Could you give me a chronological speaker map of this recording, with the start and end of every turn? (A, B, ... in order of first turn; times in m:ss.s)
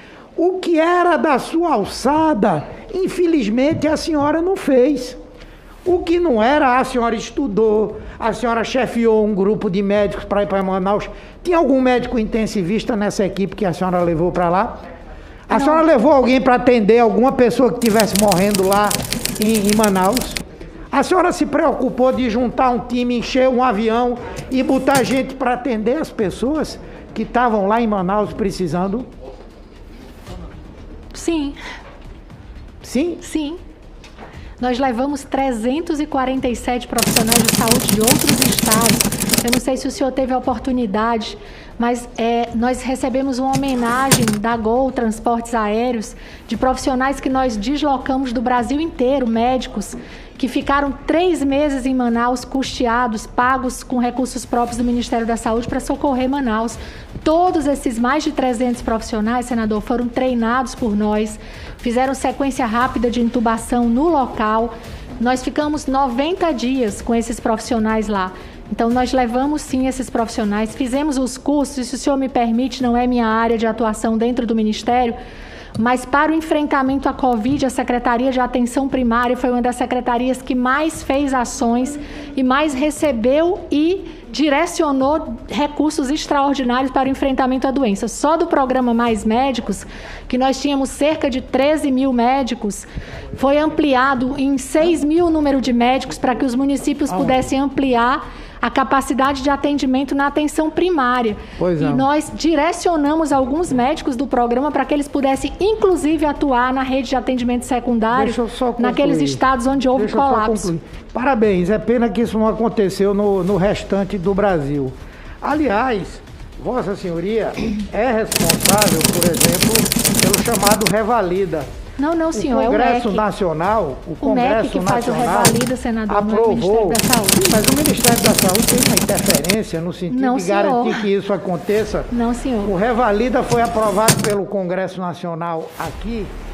0:00.4-0:05.2 A
0:05.8-0:14.8 A
0:15.5-0:29.1 A
0:15.5-0:15.8 B
0:31.1-0:31.6 B
0:32.8-0:33.2 A
0:33.2-0:33.6 B
0:34.6-1:15.2 B
1:15.8-1:50.7 B
1:37.1-1:37.4 A
1:41.6-1:42.1 A
1:48.1-2:01.7 A
2:02.0-2:03.2 B
2:02.3-2:05.6 A
2:04.2-2:07.4 B
2:06.1-2:12.1 A
2:10.1-2:11.1 B
2:12.1-2:12.7 B
2:12.6-2:16.3 A